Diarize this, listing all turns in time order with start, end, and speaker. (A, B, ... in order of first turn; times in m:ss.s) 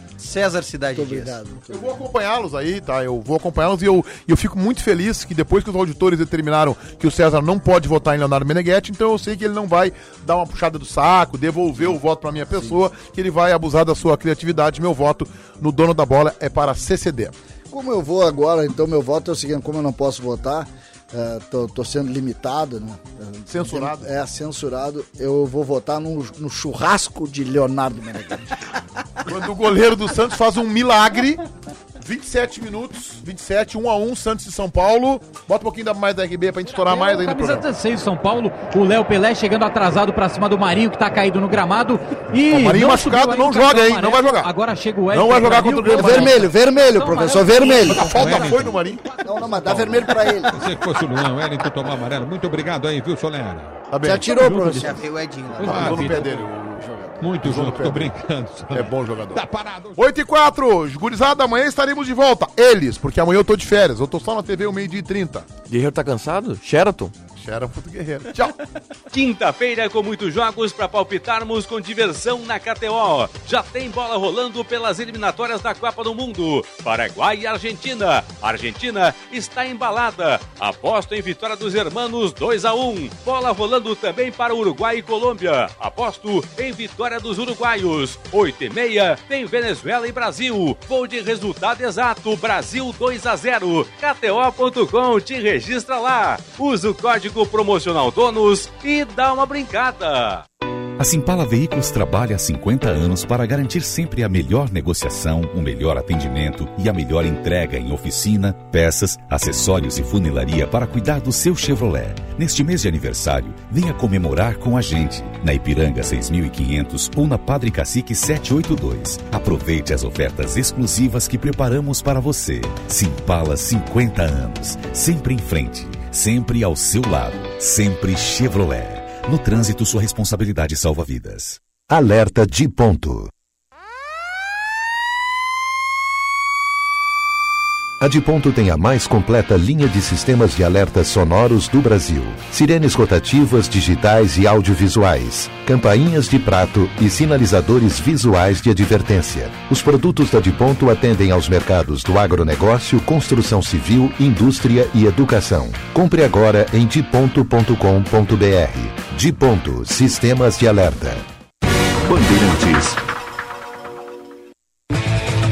0:00.2-0:01.4 A
0:00.9-0:02.0 B
0:01.7-0:17.4 C
0:17.7-0:28.5 B
0:23.5-0:24.1 C
0:29.2-0:31.5 C
0:32.0-0:37.7 C
0:36.7-0:49.3 D
0:42.5-0:44.5 C
0:45.1-0:46.5 C
0:45.9-0:48.1 B
0:47.8-0:49.0 C
0:48.1-0:48.6 E
0:49.2-0:50.6 B
0:49.4-0:53.9 E
0:49.7-0:50.1 C
0:53.9-0:55.0 C
0:54.0-0:55.0 B
0:54.8-0:56.3 A
0:55.6-0:56.2 E
0:55.6-0:56.9 C
0:55.7-0:56.3 F
0:56.8-0:57.3 F
0:57.2-1:00.0 E
0:57.4-0:58.1 C
0:58.7-1:05.5 C
1:05.7-1:07.1 F
1:07.4-1:08.6 C
1:09.1-1:40.4 G
1:41.0-2:11.6 H
2:11.9-2:13.3 I
2:18.0-2:41.3 I
2:42.0-2:43.0 I